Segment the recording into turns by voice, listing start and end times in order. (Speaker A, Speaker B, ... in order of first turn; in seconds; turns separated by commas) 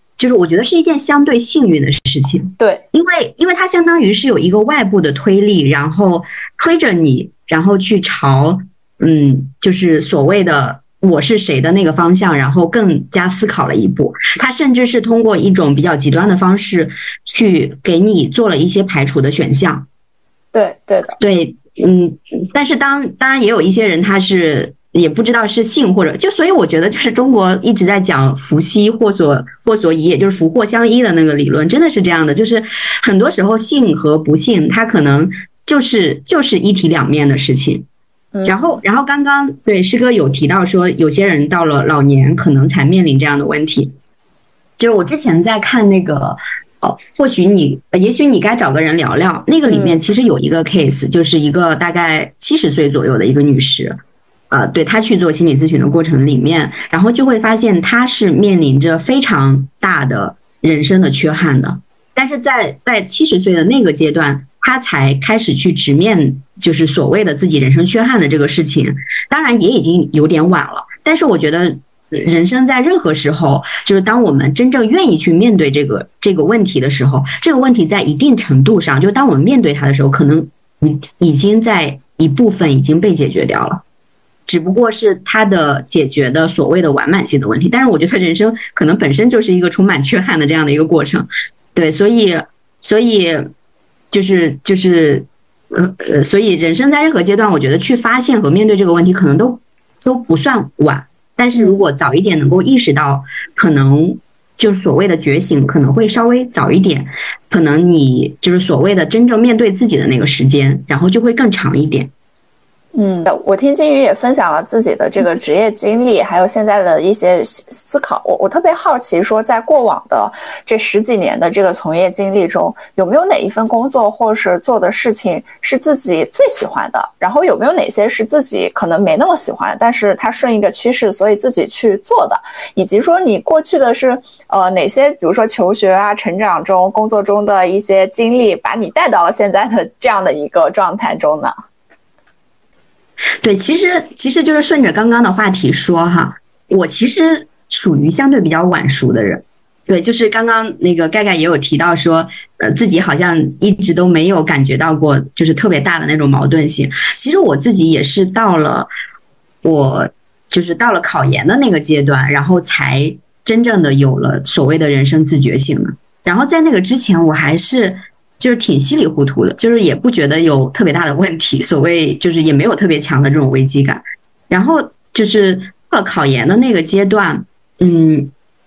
Speaker A: 0.2-19.9, Speaker B: 20.5-21.2, Speaker A: 21.2-37.9, Speaker B: 38.3-38.8, Speaker A: 38.4-43.9, Speaker A: 44.8-54.0, Speaker B: 49.7-50.0, Speaker A: 54.5-83.8, Speaker A: 84.5-93.5, Speaker A: 94.1-112.1, Speaker B: 101.5-101.8, Speaker B: 112.9-141.5, Speaker A: 143.4-158.9, Speaker A: 159.6-178.3